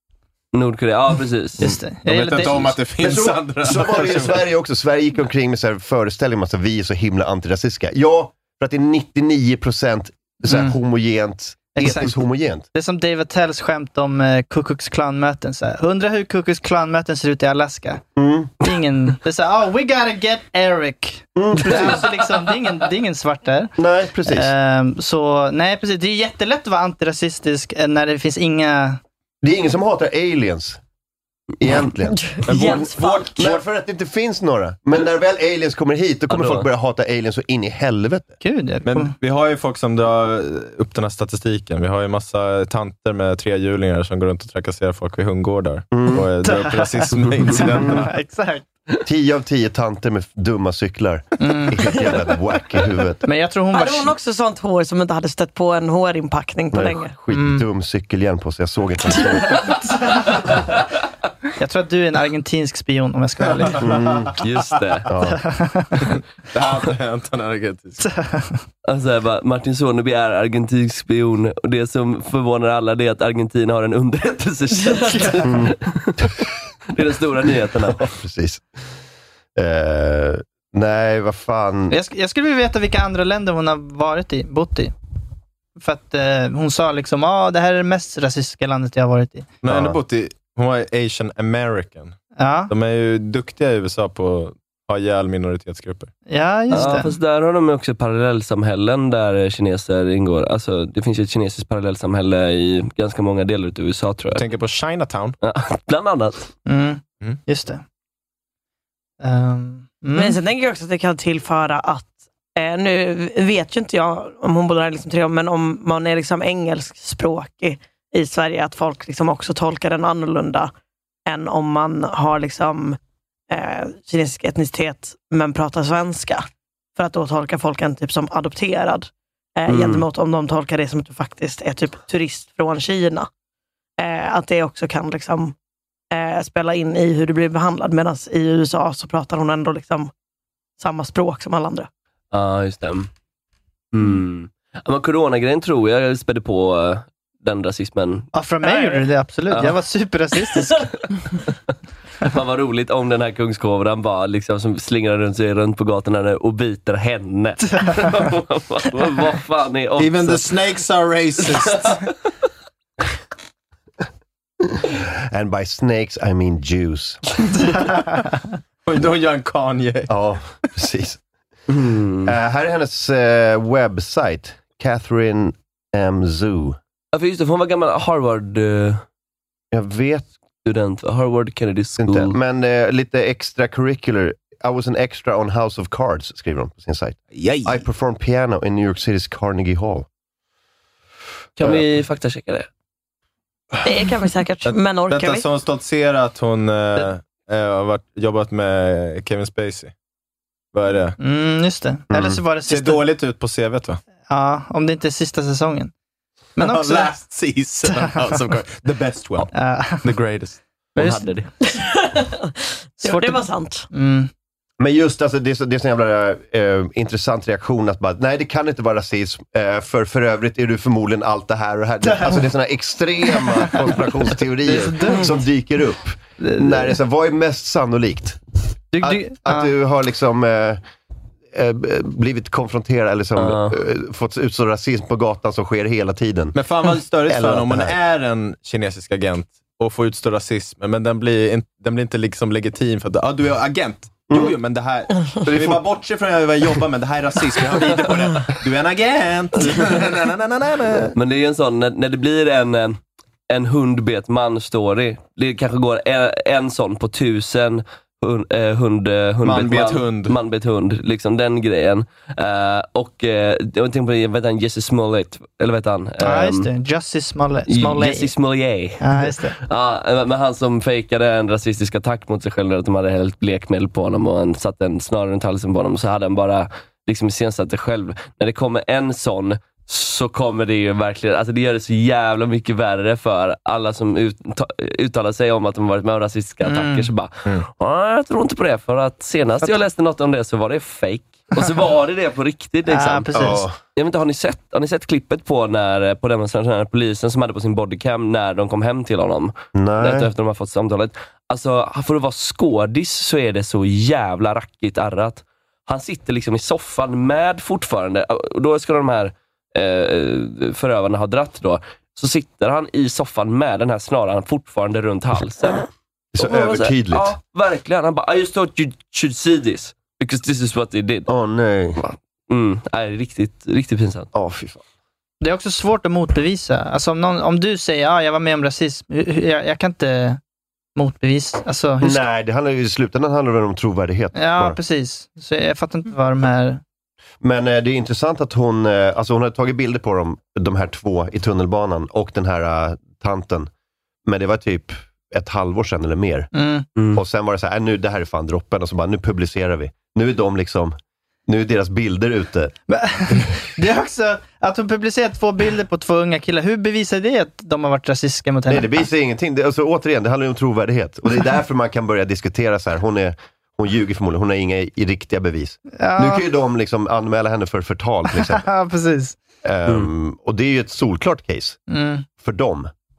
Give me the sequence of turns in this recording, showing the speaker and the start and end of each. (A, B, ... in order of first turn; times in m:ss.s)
0:00.5-0:01.7 A
0:01.6-0:02.8 B
0:01.7-0:04.4 C
0:03.0-0:12.7 D
0:10.5-0:10.8 B
0:11.8-0:18.0 B
0:18.2-0:18.6 D
0:18.6-0:29.0 B
0:21.4-0:22.0 D
0:23.8-0:24.5 D
0:29.4-0:30.8 D
0:31.6-0:38.3 D
0:32.2-0:33.5 E
0:32.5-0:33.6 C
0:36.3-0:36.7 A
0:38.4-0:39.1 B
0:38.8-0:48.1 C
0:45.9-0:46.2 D
0:46.4-0:48.6 B
0:49.0-0:53.2 D
0:51.4-0:51.9 B
0:53.2-0:54.1 B
0:53.7-0:57.1 E
0:56.7-0:59.6 D
0:57.3-0:57.6 B
1:01.6-1:03.9 B
1:03.7-1:04.0 C
1:03.8-1:04.3 D
1:04.4-1:05.1 A
1:05.1-1:05.4 D
1:05.3-1:06.1 B
1:06.1-1:08.0 C
1:08.0-1:08.6 B
1:08.8-1:16.1 A
1:14.8-1:15.4 E
1:15.4-1:15.8 D
1:16.9-1:18.1 A
1:17.9-1:18.6 D
1:19.6-1:22.0 D
1:21.9-1:24.9 B
1:25.8-1:29.5 B
1:29.6-1:32.2 C
1:32.4-1:32.7 B
1:32.7-1:36.1 C
1:36.3-1:37.1 B
1:36.7-1:44.4 A
1:44.4-1:45.4 C
1:45.4-1:46.5 A
1:46.7-1:47.8 B
1:49.2-1:50.4 B
1:50.2-2:00.7 E
2:01.3-2:03.0 E
2:03.5-2:13.3 E
2:09.7-2:10.1 A
2:14.0-2:15.6 E
2:16.1-2:20.1 E
2:20.8-2:21.9 E
2:22.3-2:23.1 A
2:23.9-2:28.3 A
2:28.3-2:30.9 B
2:28.7-2:29.0 E
2:29.5-2:29.8 A
2:32.2-2:40.5 A
2:37.8-2:38.1 B
2:40.0-2:42.0 C
2:44.7-2:47.2 D
2:47.7-2:48.5 B
2:48.9-2:50.1 C
2:50.1-2:51.2 D
2:51.7-2:52.3 A
2:52.2-2:56.8 D
2:57.1-2:59.0 A
2:59.7-3:00.3 D
3:00.6-3:02.4 A
3:02.0-3:10.1 D
3:07.3-3:07.8 C
3:11.6-3:12.7 A
3:13.8-3:15.5 E
3:14.6-3:19.9 C
3:20.7-3:21.2 C
3:21.2-3:23.1 B
3:22.1-3:22.4 D
3:22.7-3:24.0 C
3:24.3-3:25.9 B
3:26.6-3:27.2 B
3:26.6-3:29.5 C
3:29.5-3:30.1 B
3:30.0-3:30.6 C
3:31.0-3:31.3 B
3:31.0-3:31.5 A
3:31.6-3:32.4 E
3:33.0-3:33.9 E
3:33.0-3:34.3 B
3:34.8-3:48.4 D
3:42.0-3:42.5 B
3:43.4-3:43.9 B
3:44.6-3:45.3 B
3:46.4-3:47.0 B
3:48.9-3:49.7 B
3:49.0-3:50.8 D
3:51.5-3:56.6 D
3:53.4-3:53.8 A
3:56.6-4:11.1 C
3:57.3-3:58.0 D
4:04.3-4:04.6 D
4:11.2-4:13.0 A
4:13.5-4:26.7 A
4:19.4-4:20.4 C
4:26.2-4:28.3 B
4:27.7-5:15.9 A
4:29.0-4:29.6 B
4:46.6-4:47.1 B
4:52.9-4:53.6 B
4:53.4-4:53.7 D
4:59.8-5:00.3 D
5:16.3-5:17.3 D
5:16.4-5:21.3 A
5:21.3-5:22.0 D
5:22.0-5:24.3 A
5:24.3-5:24.8 D
5:25.4-5:30.4 B
5:31.0-5:32.2 B
5:32.0-5:34.8 D
5:34.4-5:36.8 B
5:37.4-5:43.7 D
5:44.3-5:46.5 D
5:46.5-5:46.9 B
5:47.1-5:51.0 D
5:51.5-5:52.8 D
5:52.9-5:59.0 B
5:58.7-6:08.6 D
6:06.0-6:06.4 B
6:08.4-6:09.4 B
6:09.6-6:11.8 D
6:11.9-6:12.3 B
6:12.4-6:12.9 D